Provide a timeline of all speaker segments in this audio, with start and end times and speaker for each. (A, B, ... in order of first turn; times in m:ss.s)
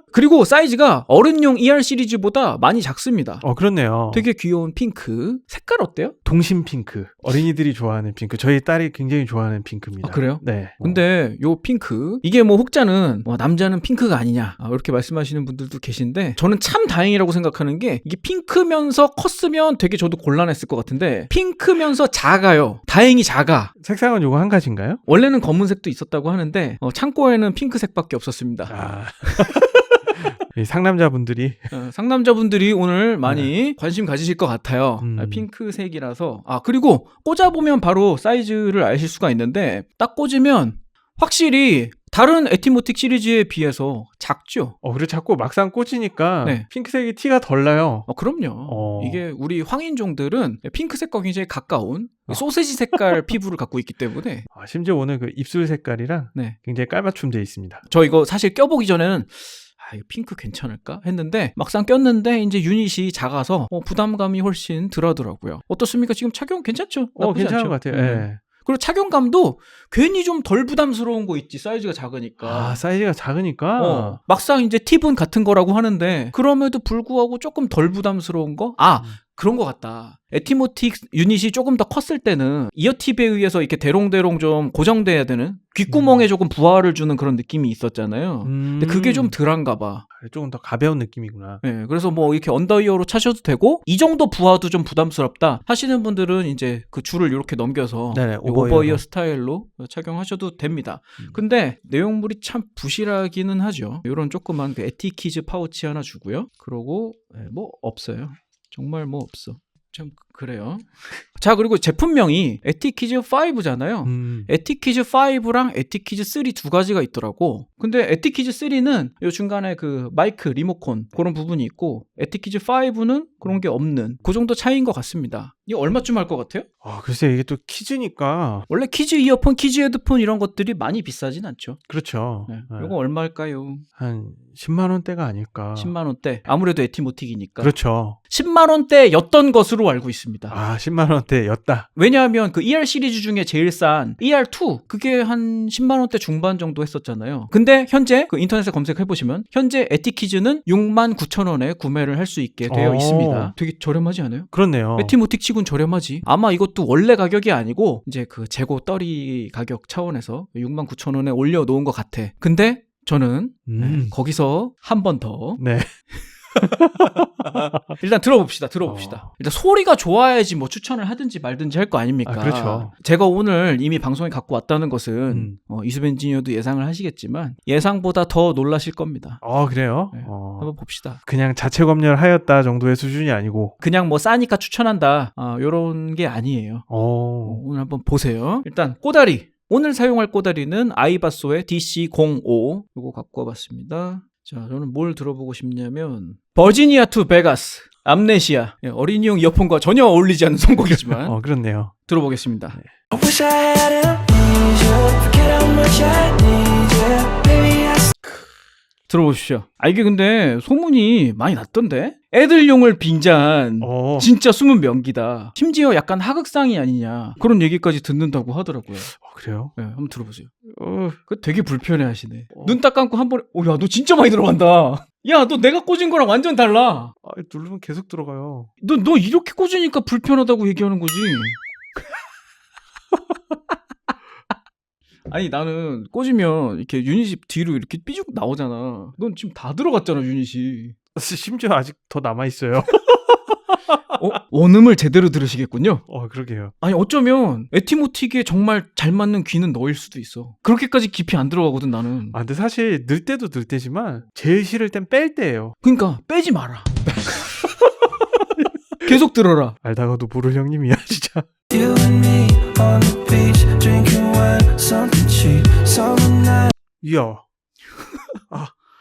0:00.1-0:03.4 A
0:03.4-0:04.3 B
0:04.1-0:06.2 A
0:06.2-0:11.0 B
0:10.0-0:23.7 A
0:23.8-0:25.0 B
0:25.1-0:29.5 A
0:28.7-0:31.7 B
0:31.7-0:44.8 A
0:33.2-0:33.5 B
0:35.0-0:35.4 B
0:44.8-0:48.1 B
0:48.1-0:54.5 A
0:48.6-0:49.2 B
0:54.5-0:57.8 B
0:57.9-1:12.8 A
1:07.2-1:08.4 B
1:12.4-1:14.2 B
1:13.8-1:30.0 A
1:25.9-1:26.3 B
1:28.4-1:29.4 B
1:30.2-1:31.6 B
1:31.6-2:06.7 A
1:38.1-1:39.0 B
1:54.0-1:54.5 B
2:06.8-2:08.7 B
2:08.7-2:11.8 A
2:11.9-2:12.9 B
2:12.5-2:13.8 A
2:14.0-2:15.9 B
2:15.8-2:17.7 A
2:17.6-2:18.2 B
2:18.3-2:20.5 A
2:20.5-2:21.9 B
2:22.0-2:45.6 A
2:32.7-2:33.5 B
2:34.5-2:35.2 B
2:43.7-2:44.1 B
2:45.6-2:46.0 B
2:46.5-2:47.9 B
2:47.9-2:59.4 A
2:48.8-2:49.2 B
2:52.2-2:52.9 B
2:55.3-2:55.6 B
2:59.4-3:00.7 B
3:00.1-3:01.2 A
3:01.2-3:03.8 B
3:03.8-3:06.8 A
3:06.9-3:07.6 B
3:07.4-3:21.4 A
3:20.9-3:22.0 B
3:22.1-3:22.8 A
3:23.1-3:28.1 C
3:29.1-3:39.1 A
3:33.8-3:34.3 B
3:39.1-3:39.7 B
3:39.8-3:40.5 A
3:40.7-3:41.2 B
3:41.3-3:47.1 A
3:42.5-3:42.8 B
3:47.2-3:48.7 B
3:48.8-3:51.6 A
3:55.3-4:01.0 A
4:01.1-4:03.0 B
4:04.1-4:06.0 A
4:06.1-4:06.7 B
4:06.8-4:12.4 A
4:12.3-4:15.8 B
4:15.8-4:17.4 A
4:19.0-4:19.8 A
4:19.8-4:21.5 B
4:21.7-4:26.7 C
4:27.0-4:27.4 B
4:28.5-4:28.7 B